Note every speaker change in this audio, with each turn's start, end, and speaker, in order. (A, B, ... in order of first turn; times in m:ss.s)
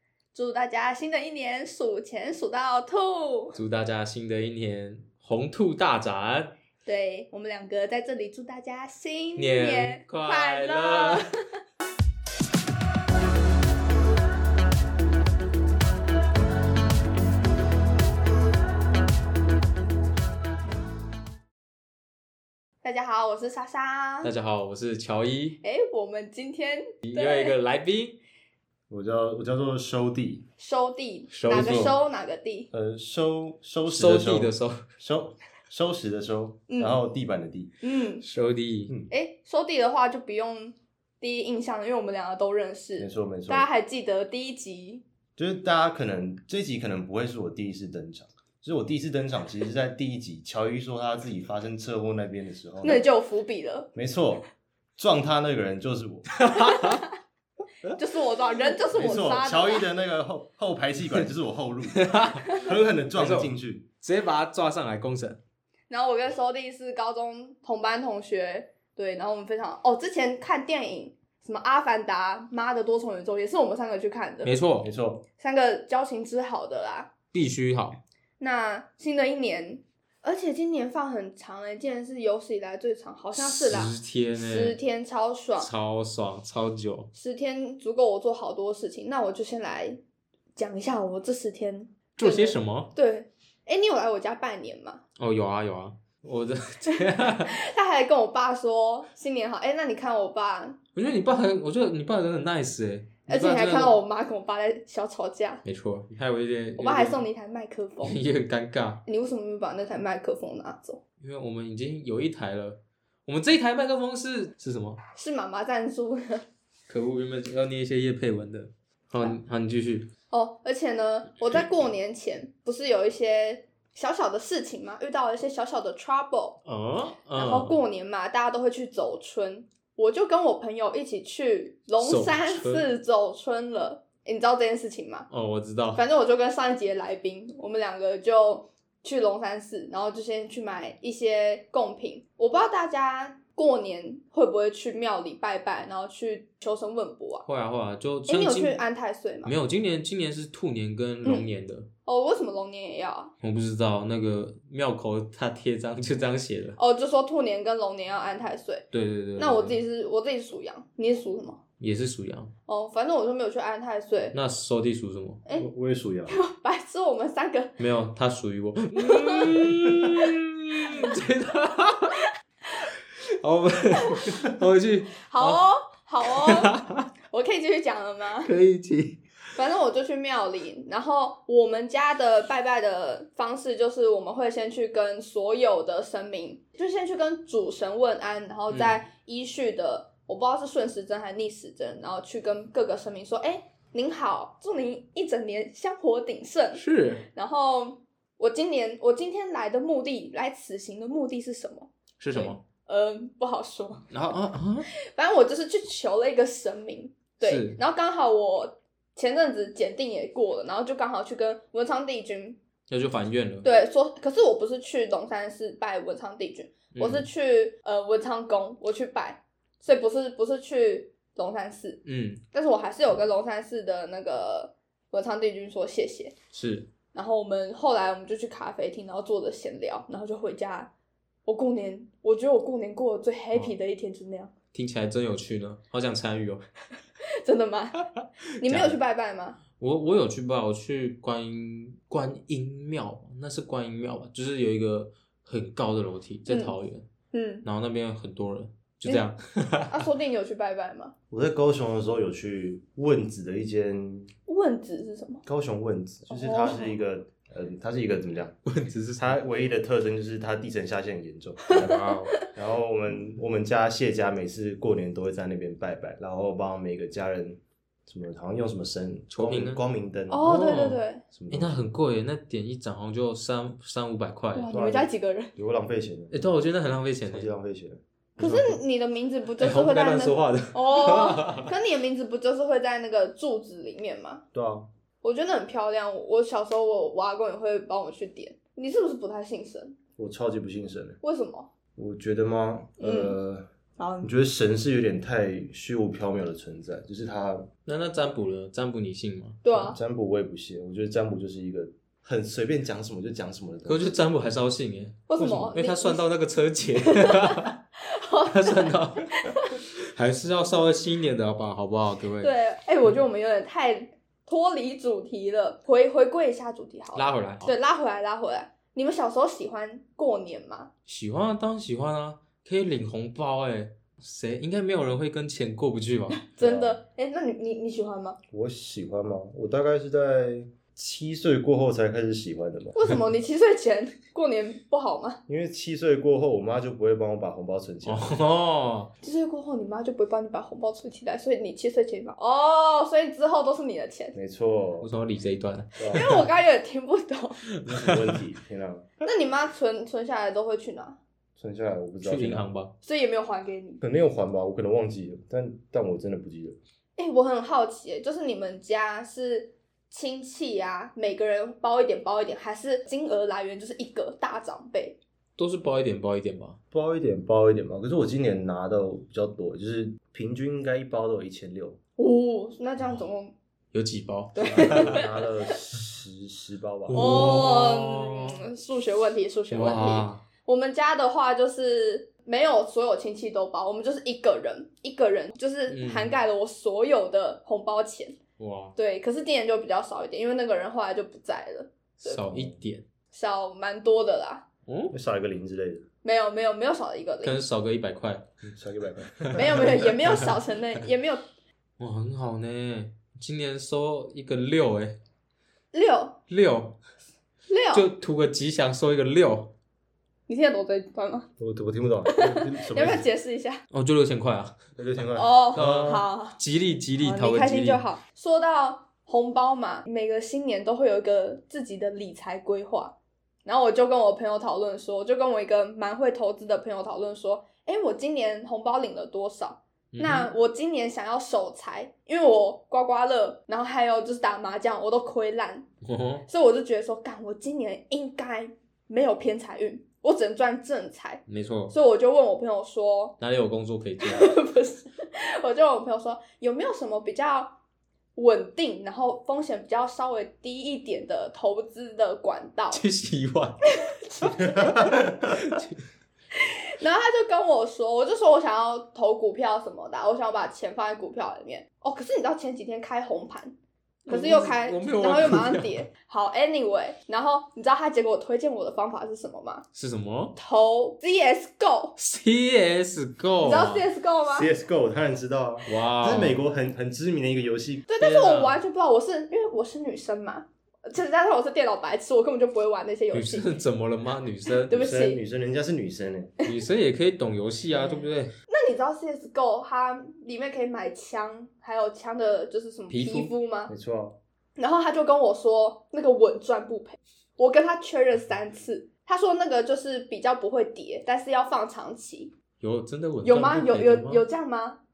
0:00.3-0:03.6 A
0:03.6-0:06.5 B
0:06.8-0:11.4 A
0:09.4-0:11.3 B
0:22.8-0:24.3 A
0:24.2-0:25.6 B
0:25.6-0:27.6 A
0:27.0-0:28.2 B
0:28.9-0:30.4 C
0:30.6-0:32.7 A
0:31.3-0:31.9 B
0:31.5-0:31.9 C
0:32.7-0:37.7 C
0:33.9-0:34.8 B
0:36.7-0:37.0 A
0:37.8-0:38.2 A
0:38.2-0:38.9 B
0:39.1-0:45.0 A
0:43.0-0:43.7 C
0:45.4-0:53.0 C
0:52.8-0:53.9 A
0:54.0-0:54.4 C
0:55.0-0:56.4 C
0:56.4-0:57.0 B
0:56.5-0:57.1 A
0:58.0-0:59.8 A
0:58.9-1:03.9 C
1:01.9-1:02.6 B
1:03.2-1:05.4 B
1:05.9-1:14.5 A
1:14.4-1:14.9 B
1:14.8-1:15.2 C
1:15.4-1:17.1 A
1:17.3-1:18.0 B
1:18.4-1:25.7 A
1:23.4-1:24.8 B
1:25.6-1:27.1 B
1:27.1-1:30.0 A
1:30.6-1:35.0 A
1:32.2-1:32.9 B
1:35.2-1:37.6 B
1:36.9-1:40.8 A
1:41.0-1:44.0 B
1:43.3-1:45.6 A
1:45.6-1:47.2 B
1:46.8-1:48.2 A
1:48.0-1:49.0 B
1:49.1-1:51.0 A
1:51.2-1:55.0 B
1:55.1-1:56.4 A
1:56.9-2:00.1 B
2:00.3-2:06.6 A
2:06.6-2:07.8 B
2:07.4-2:15.3 A
2:12.0-2:12.9 B
2:15.3-2:16.0 B
2:16.0-2:27.5 A
2:27.5-2:28.8 B
2:28.3-2:29.5 A
2:29.4-2:31.9 B
2:31.2-2:31.5 A
2:32.1-2:33.3 A
2:33.4-2:36.8 B
2:36.8-2:38.8 A
2:38.9-2:39.8 B
2:39.4-2:41.6 A
2:41.8-2:42.5 B
2:42.7-2:44.4 A
2:44.3-2:45.4 B
2:45.6-2:46.4 C
2:46.3-2:47.8 A
2:47.8-2:52.2 B
2:49.0-2:49.7 A
2:53.4-2:55.6 B
2:54.0-2:54.5 A
2:55.2-2:56.7 A
2:56.2-2:57.1 B
2:57.3-2:58.5 A
2:58.4-2:59.2 B
2:59.6-3:24.1 A
3:08.7-3:09.0 B
3:16.8-3:17.2 B
3:22.2-3:22.6 B
3:24.1-3:24.9 B
3:25.1-3:32.6 A
3:27.4-3:27.8 B
3:32.9-3:33.7 B
3:33.6-3:46.4 A
3:36.9-3:37.3 B
3:42.0-3:42.4 B
3:46.5-3:46.9 B
3:47.1-3:50.9 A
3:51.5-3:54.5 A
3:54.7-3:56.6 B
3:57.4-3:58.1 A
3:58.6-3:59.6 A
3:58.6-3:59.0 B
3:59.8-4:07.1 B
4:06.5-4:06.8 A
4:07.3-4:07.6 A
4:07.6-4:10.1 B
4:09.9-4:11.1 A
4:11.3-4:14.3 C
4:14.5-4:15.4 A
4:15.5-4:18.6 C
4:16.3-4:17.0 A
4:18.7-4:19.4 B
4:19.2-4:30.7 C
4:21.7-4:22.4 A
4:21.8-4:22.2 B
4:29.3-4:29.8 B
4:30.3-4:31.2 A
4:30.4-4:34.7 B
4:31.3-4:31.9 C
4:34.6-4:35.5 A
4:34.7-4:36.4 C
4:36.3-4:37.5 B
4:37.3-4:38.7 C
4:38.4-4:44.4 A
4:38.4-4:38.7 B
4:39.6-4:41.7 B
4:44.5-4:44.9 C
4:45.2-4:50.0 A
4:50.2-4:51.2 C
4:51.2-4:51.7 A
4:52.0-4:53.6 C
4:53.0-4:53.4 A
4:54.0-4:54.3 A
4:54.2-4:57.7 C
4:57.9-4:59.6 B
4:59.6-5:00.0 A
4:59.7-5:04.2 C
5:03.9-5:07.8 B
5:05.3-5:06.2 A
5:07.0-5:09.7 A
5:08.5-5:12.5 B
5:12.4-5:20.9 A
5:17.1-5:17.7 B
5:21.1-5:26.4 B
5:26.4-5:28.4 A
5:26.6-5:27.0 C
5:28.5-5:33.0 C
5:33.0-5:35.4 A
5:35.5-5:38.4 C
5:38.0-5:39.1 B
5:39.2-5:44.4 A
5:44.3-5:45.1 C
5:45.0-5:46.5 B
5:46.0-5:46.3 C
5:46.1-5:47.6 A
5:47.7-5:48.2 B
5:47.8-5:49.1 C
5:49.2-5:51.2 A
5:51.6-5:52.7 C
5:52.2-5:52.9 B
5:53.0-5:54.0 A
5:54.0-5:56.8 C
5:57.2-6:05.2 A
6:05.6-6:06.8 B
6:06.9-6:12.0 C
6:12.2-6:13.6 A
6:13.9-6:15.3 B
6:14.6-6:15.7 A
6:14.7-6:17.7 C
6:17.1-6:18.6 B
6:17.1-6:28.4 A
6:19.7-6:20.4 B
6:25.9-6:26.4 B
6:28.6-6:29.0 B
6:29.0-6:32.5 A
6:32.2-6:33.0 B
6:32.5-6:32.8 C
6:33.3-6:34.7 A
6:34.9-6:35.2 B
6:35.1-6:36.1 C
6:36.2-6:37.6 A
6:37.4-6:38.5 B
6:38.6-6:40.1 C
6:39.4-6:40.6 B
6:39.5-6:41.4 A
6:42.0-6:45.2 B
6:45.9-6:46.4 A
6:46.5-6:47.0 B
6:47.7-6:48.1 A
6:47.9-6:49.7 B
6:50.5-6:51.5 A
6:51.6-6:53.3 C
6:52.2-6:53.8 A
6:53.9-6:54.8 B
6:55.0-6:56.2 C
6:55.4-6:56.6 A
6:55.7-6:58.0 B
6:57.2-7:15.9 A
7:10.1-7:10.5 B
7:16.0-7:16.5 B
7:16.5-7:23.4 A
7:21.5-7:21.9 B
7:23.4-7:24.5 B
7:24.2-7:27.8 A
7:28.4-7:33.0 A
7:32.9-7:33.8 B
7:33.9-7:35.3 A
7:34.5-7:34.8 B
7:34.8-7:35.6 C
7:35.4-7:36.0 B
7:36.6-7:43.8 A
7:44.2-7:46.1 B
7:44.3-7:49.8 A
7:49.9-7:50.6 B
7:50.6-7:52.2 A
7:52.2-7:54.1 B
7:53.6-7:54.7 A
7:54.5-7:58.1 C
7:55.9-7:56.6 B
7:58.1-8:03.7 A
7:58.2-7:58.8 B
8:03.3-8:05.1 B
8:04.7-8:05.4 A
8:04.9-8:06.5 C
8:06.6-8:08.5 B
8:07.9-8:13.9 A
8:13.1-8:13.5 B
8:13.9-8:14.4 C
8:14.8-8:22.5 A
8:22.8-8:24.4 B
8:23.4-8:25.0 A